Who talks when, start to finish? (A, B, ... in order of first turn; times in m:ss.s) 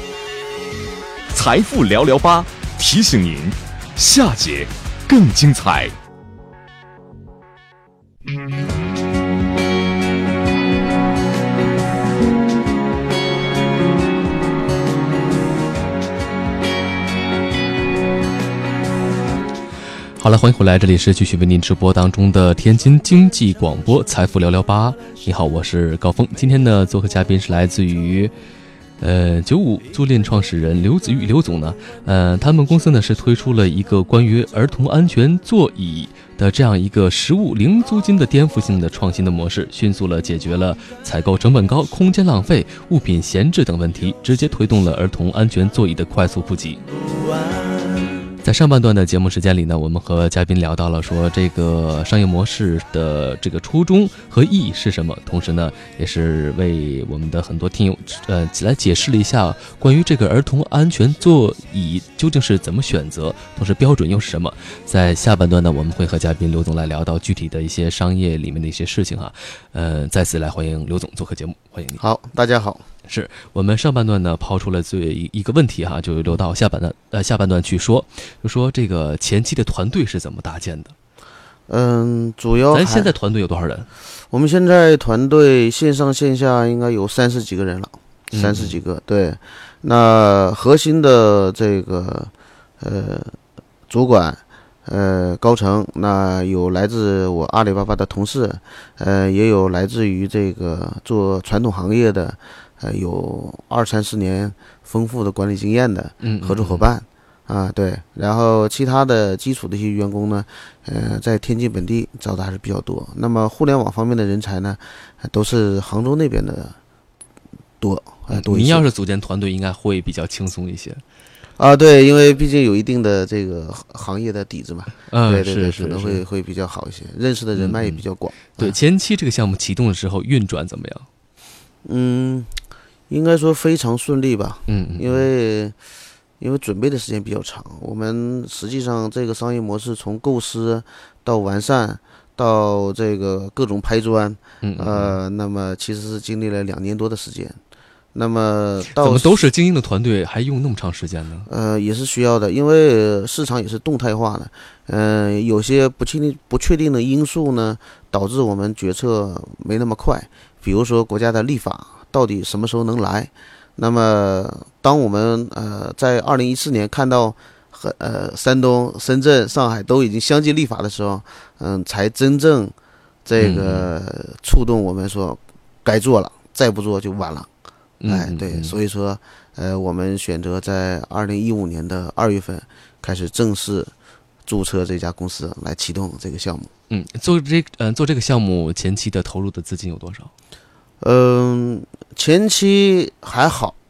0:01.3-0:05.9 A
0:20.2-0:28.3 B
0:29.0-0:46.8 B
0:48.4-1:12.0 B
1:12.0-1:12.8 C
1:13.1-1:20.9 B
1:21.7-1:23.1 C
1:22.7-1:23.9 B
1:24.3-1:33.4 C
1:28.3-1:28.8 B
1:33.9-1:56.8 C
1:46.2-1:46.8 B
1:57.8-1:58.9 C
1:58.3-2:01.0 B
2:01.6-2:08.8 C
2:05.1-2:06.2 B
2:07.6-2:08.0 B
2:08.5-2:11.1 B
2:11.8-2:12.5 C
2:13.1-2:15.8 C
2:14.7-2:15.3 B
2:16.4-2:27.6 C
2:24.6-2:25.2 B
2:28.1-2:29.5 C
2:28.9-2:31.5 B
2:31.5-2:52.7 C
2:53.2-2:57.5 C
2:53.4-2:53.9 B
2:58.0-2:58.8 B
2:58.1-3:03.9 C
3:04.5-3:06.7 C
3:06.9-3:10.3 B
3:11.0-3:13.8 C